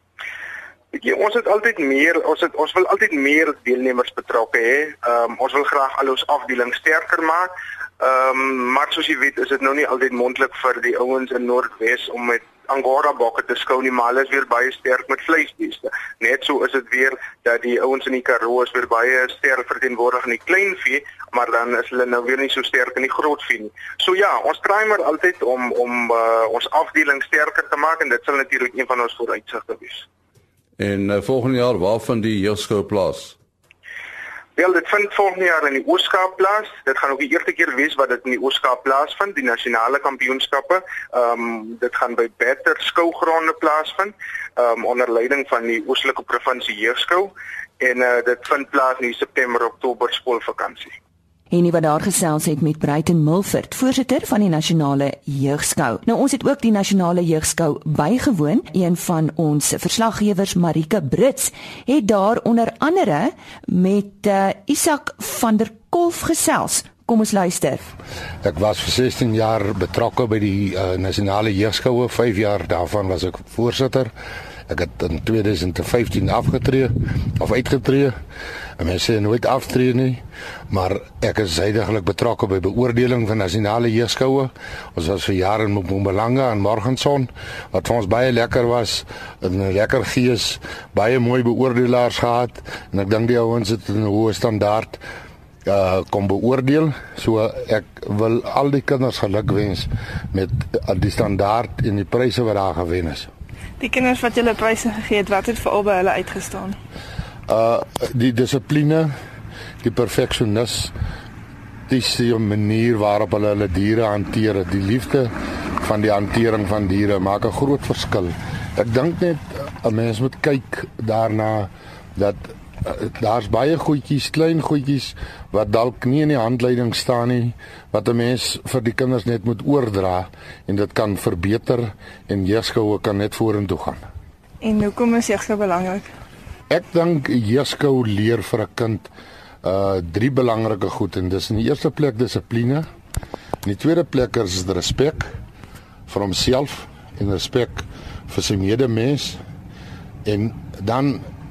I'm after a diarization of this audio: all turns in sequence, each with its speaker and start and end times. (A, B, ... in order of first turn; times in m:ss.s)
0:00.9-0:30.1 A
0:30.8-0:33.4 B
0:34.6-0:50.9 A
0:51.5-1:07.9 C
1:08.4-1:14.1 D
1:14.7-1:18.2 D
1:18.8-1:35.0 D
1:35.6-1:43.3 D
1:43.8-1:46.8 E
1:47.5-1:49.1 D
1:49.8-1:50.9 D
1:51.9-2:14.0 D
2:14.6-2:16.1 E
2:16.7-2:19.1 D
2:19.6-2:22.9 D
2:23.6-2:25.3 D
2:26.1-2:29.4 D
2:30.2-2:31.3 D